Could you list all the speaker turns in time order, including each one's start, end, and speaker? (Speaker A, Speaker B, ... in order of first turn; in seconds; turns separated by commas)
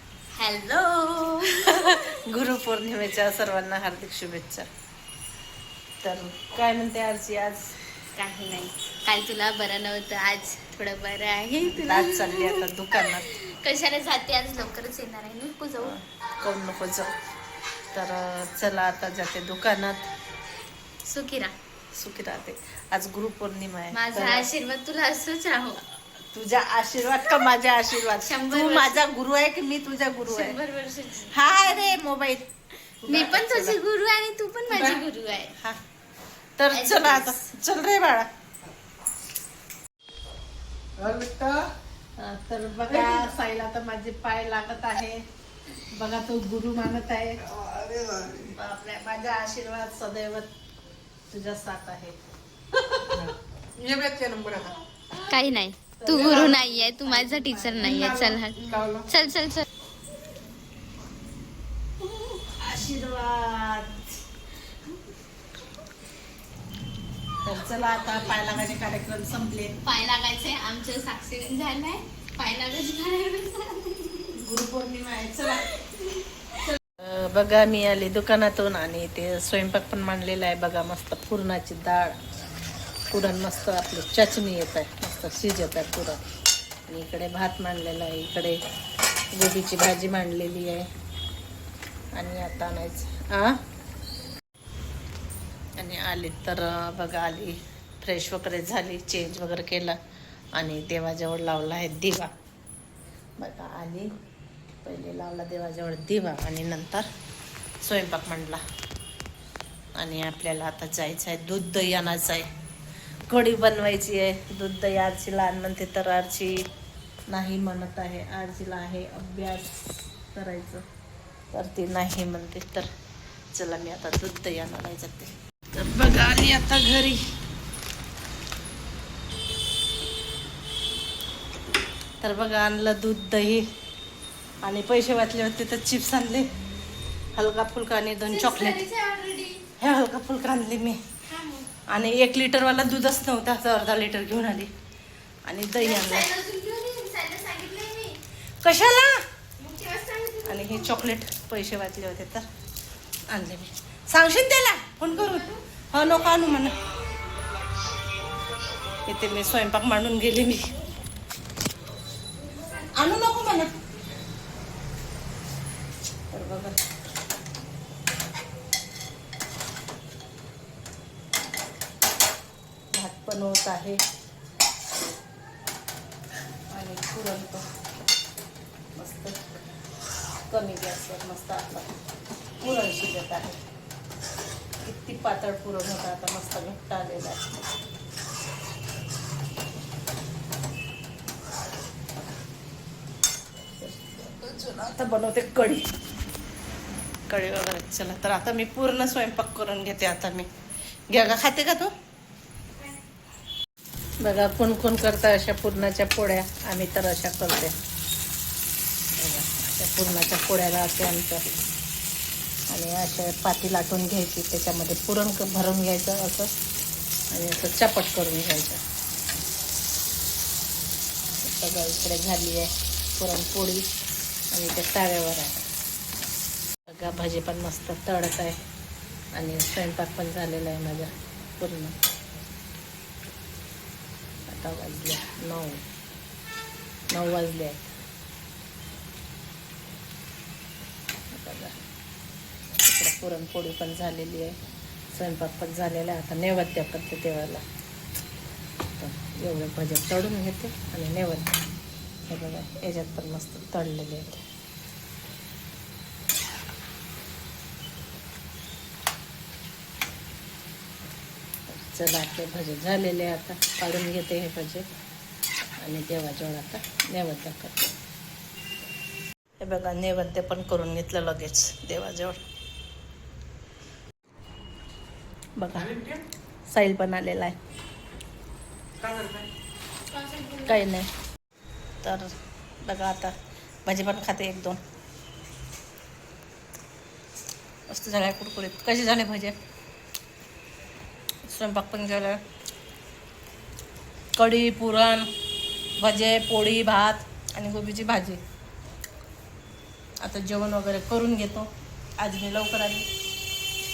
Speaker A: 0.3-2.2, Speaker B: 1.6-4.7, Speaker B: 6.0-7.7, Speaker A: 8.2-15.9, Speaker B: 11.7-13.3, Speaker B: 15.8-17.1, Speaker B: 17.9-20.1, Speaker A: 21.1-21.5, Speaker B: 21.9-24.5, Speaker A: 23.9-25.8, Speaker B: 26.3-30.6, Speaker A: 28.1-29.0, Speaker A: 30.3-31.9, Speaker B: 31.3-32.5, Speaker B: 33.0-33.8, Speaker A: 33.1-35.5, Speaker C: 34.7-35.0, Speaker B: 36.6-38.3, Speaker A: 36.7-37.4, Speaker C: 41.0-41.7, Speaker B: 42.2-45.2, Speaker C: 42.9-43.3, Speaker B: 45.9-47.4, Speaker C: 47.5-48.5, Speaker B: 48.5-50.5, Speaker B: 51.3-52.1, Speaker B: 52.7-53.1, Speaker C: 53.1-54.8, Speaker A: 55.2-59.6, Speaker B: 56.0-58.3, Speaker C: 56.1-56.6, Speaker C: 57.8-59.1, Speaker B: 62.2-64.0, Speaker B: 67.4-69.7, Speaker A: 69.8-74.4, Speaker B: 74.4-75.8, Speaker B: 76.9-82.2, Speaker B: 83.1-86.2, Speaker B: 86.9-88.6, Speaker B: 89.3-90.8, Speaker B: 92.1-93.5, Speaker B: 95.8-100.0, Speaker B: 100.5-102.3, Speaker B: 103.4-104.1, Speaker B: 104.8-107.0, Speaker B: 107.8-108.6, Speaker B: 110.0-112.5, Speaker B: 113.3-116.6, Speaker B: 117.3-119.8, Speaker B: 120.3-120.8, Speaker B: 121.5-122.9, Speaker B: 123.5-127.3, Speaker B: 132.2-133.6, Speaker B: 134.6-136.5, Speaker B: 137.3-138.8, Speaker A: 138.3-139.6, Speaker B: 139.8-141.0, Speaker A: 141.3-141.7, Speaker B: 141.9-144.7, Speaker B: 145.4-146.3, Speaker A: 145.8-148.2, Speaker B: 148.6-149.2, Speaker A: 149.6-150.9, Speaker B: 150.4-152.4, Speaker B: 153.3-156.8, Speaker A: 155.1-155.6, Speaker B: 159.1-160.7, Speaker B: 162.9-163.7, Speaker B: 166.3-166.8, Speaker B: 172.9-174.0, Speaker B: 176.7-177.6, Speaker B: 178.9-179.4, Speaker B: 180.5-181.9, Speaker B: 182.6-183.6, Speaker B: 184.8-187.5, Speaker B: 193.8-195.9, Speaker B: 197.3-200.5, Speaker B: 201.1-201.9, Speaker B: 204.2-207.7, Speaker B: 209.2-211.4, Speaker B: 212.7-216.5, Speaker B: 217.3-218.8, Speaker B: 221.4-223.9, Speaker B: 224.5-225.6, Speaker B: 226.9-228.6, Speaker B: 229.3-231.9, Speaker B: 234.5-235.8, Speaker B: 237.1-237.9, Speaker B: 241.3-241.8, Speaker B: 242.8-244.6, Speaker B: 245.1-247.6, Speaker B: 249.0-251.6, Speaker B: 252.3-254.4, Speaker B: 261.7-264.9, Speaker B: 265.8-267.9, Speaker B: 269.6-272.4, Speaker B: 275.6-275.9, Speaker C: 275.7-276.2, Speaker B: 276.7-277.6, Speaker C: 279.0-279.5, Speaker A: 280.1-280.8, Speaker B: 280.6-281.1, Speaker B: 282.0-283.3, Speaker B: 283.9-284.8, Speaker B: 287.9-289.5, Speaker B: 291.4-292.4, Speaker B: 294.4-295.3, Speaker B: 296.0-298.4, Speaker B: 300.2-303.1